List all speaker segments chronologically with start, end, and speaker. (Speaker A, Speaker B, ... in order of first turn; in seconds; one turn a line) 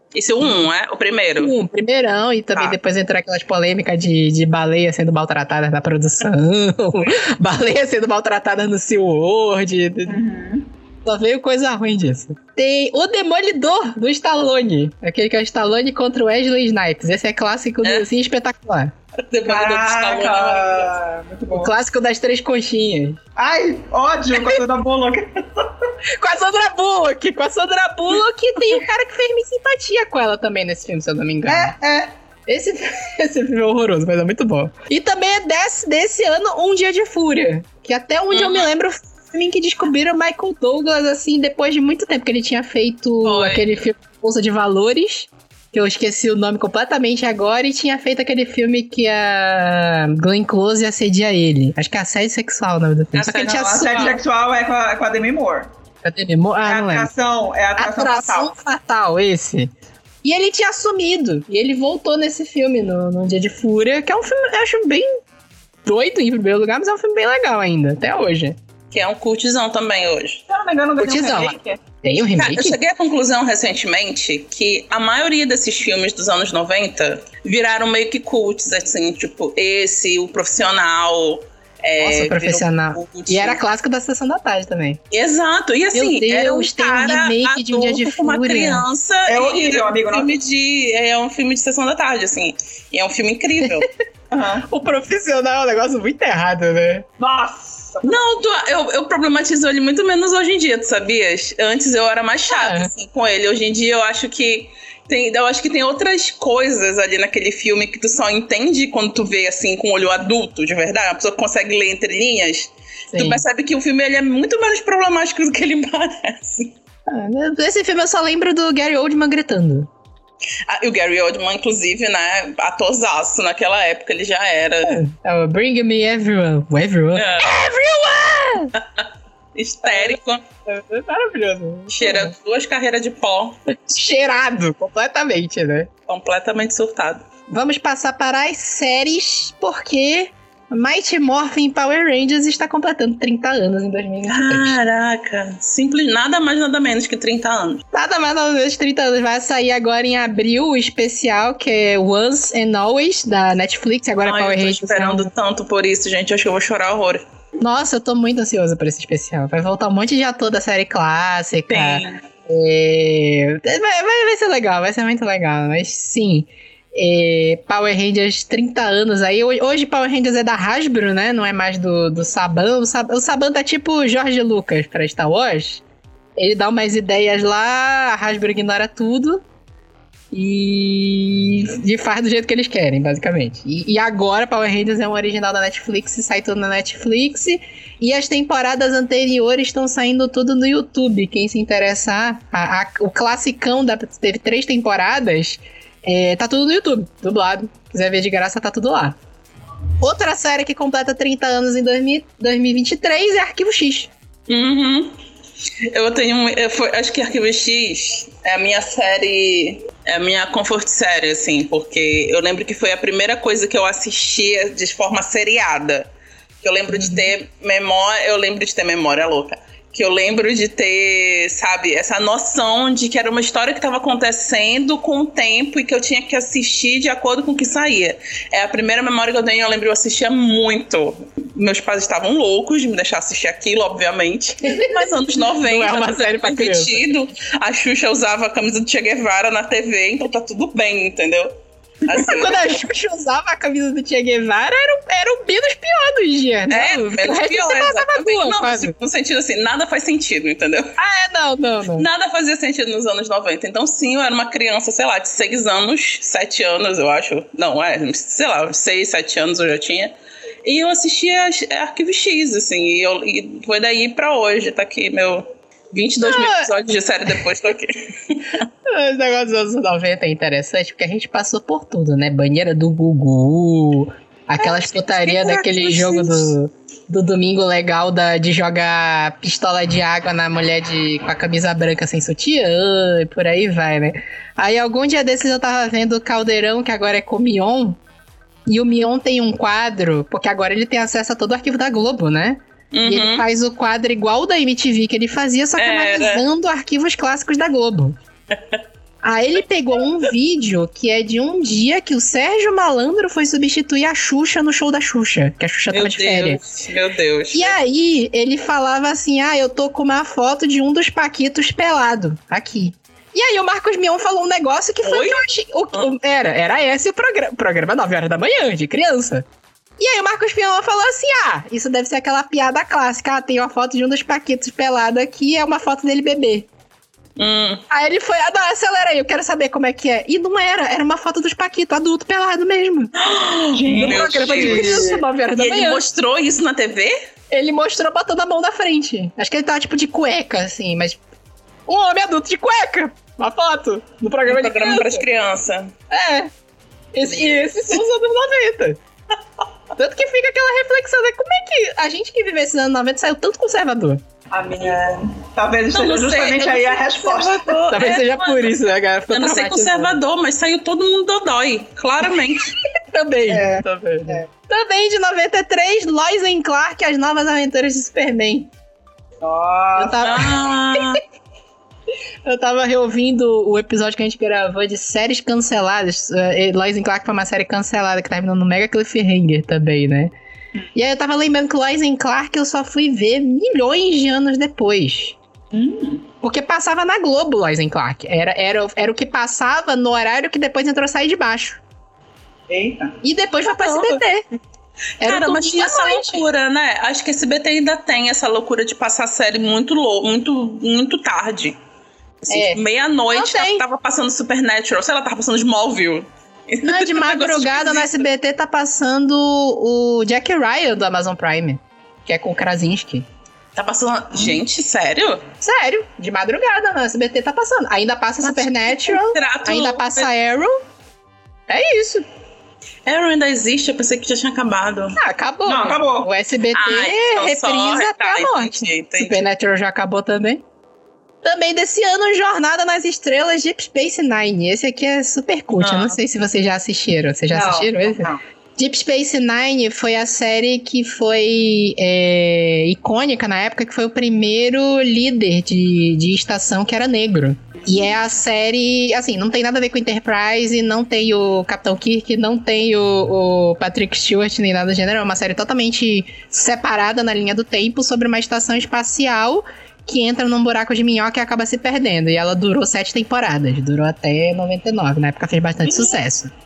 Speaker A: 0.1-1.5
Speaker B: 0.4-0.7
Speaker B: 1.4-10.2
Speaker C: 10.1-10.7
Speaker B: 11.0-18.9
Speaker A: 19.2-20.9
Speaker C: 19.4-21.7
Speaker B: 21.5-23.2
Speaker C: 23.4-25.8
Speaker B: 26.1-31.7
Speaker C: 31.4-32.1
Speaker B: 32.5-54.2
Speaker A: 38.3-38.7
Speaker A: 43.2-43.6
Speaker A: 53.1-54.1
Speaker C: 53.4-55.7
Speaker B: 56.0-57.1
Speaker C: 56.6-58.5
Speaker B: 57.8-59.7
Speaker B: 60.2-65.1
Speaker B: 65.9-68.6
Speaker A: 68.9-70.4
Speaker C: 70.5-71.8
Speaker B: 71.0-72.8
Speaker A: 72.3-83.6
Speaker B: 82.0-85.0
Speaker A: 85.1-93.9
Speaker B: 85.9-88.8
Speaker C: 89.2-90.3
Speaker C: 94.3-94.7
Speaker B: 94.7-97.0
Speaker C: 97.2-98.3
Speaker A: 98.0-116.7
Speaker B: 102.5-102.9
Speaker B: 113.1-113.4
Speaker B: 117.1-119.9
Speaker A: 120.7-125.0
Speaker B: 124.8-128.7
Speaker A: 127.1-127.5
Speaker A: 128.8-130.4
Speaker B: 129.8-132.3
Speaker A: 131.9-133.6
Speaker B: 133.9-135.9
Speaker A: 136.1-137.2
Speaker B: 137.5-144.8
Speaker A: 144.3-147.8
Speaker B: 147.9-155.3
Speaker A: 154.2-157.2
Speaker B: 157.6-175.8
Speaker A: 161.7-162.2
Speaker B: 176.4-179.4
Speaker B: 180.3-199.2
Speaker B: 200.0-204.1
Speaker A: 204.5-205.1
Speaker A: 205.9-216.1
Speaker A: 216.6-241.5
Speaker B: 216.9-217.3
Speaker B: 234.7-237.0
Speaker A: 242.0-242.8
Speaker B: 242.1-248.9
Speaker A: 246.7-250.9
Speaker B: 251.0-252.1
Speaker A: 251.9-260.1
Speaker A: 260.6-268.6
Speaker B: 266.2-266.7
Speaker B: 268.9-288.0
Speaker A: 274.6-276.5
Speaker B: 288.6-298.2
Speaker A: 292.9-293.4
Speaker A: 295.8-296.4
Speaker A: 298.5-298.8
Speaker B: 299.2-306.6
Speaker A: 305.9-307.7
Speaker B: 307.5-319.4
Speaker A: 315.0-315.4
Speaker B: 320.0-326.7
Speaker A: 327.4-327.8
Speaker B: 327.9-333.1
Speaker A: 333.2-337.1
Speaker C: 333.7-335.2
Speaker B: 333.9-336.0
Speaker B: 337.5-341.2
Speaker B: 341.9-345.2
Speaker A: 344.4-345.9
Speaker B: 346.1-346.5
Speaker B: 347.1-349.0
Speaker A: 347.3-348.0
Speaker B: 349.9-354.2
Speaker C: 354.5-357.8
Speaker A: 354.7-355.2
Speaker A: 355.9-358.8
Speaker B: 357.9-360.2
Speaker A: 359.3-362.7
Speaker B: 363.1-368.7
Speaker C: 363.5-364.4
Speaker C: 369.4-370.4
Speaker B: 370.0-370.5
Speaker A: 370.2-371.2
Speaker B: 372.4-380.3
Speaker B: 380.9-385.4
Speaker C: 385.7-386.2
Speaker B: 386.4-391.8
Speaker C: 392.7-393.2
Speaker B: 393.2-394.4
Speaker A: 393.7-394.2
Speaker B: 395.2-396.4
Speaker A: 395.2-401.8
Speaker A: 402.4-408.3
Speaker B: 402.5-402.8
Speaker B: 403.3-403.9
Speaker B: 406.8-413.2
Speaker A: 413.7-415.4
Speaker B: 415.6-420.7
Speaker A: 418.4-420.3
Speaker B: 421.7-422.2
Speaker A: 423.1-425.2
Speaker B: 425.1-430.6
Speaker C: 425.6-426.3
Speaker A: 426.7-429.5
Speaker B: 431.4-466.5
Speaker A: 435.8-436.2
Speaker C: 437.5-438.4
Speaker A: 465.9-466.2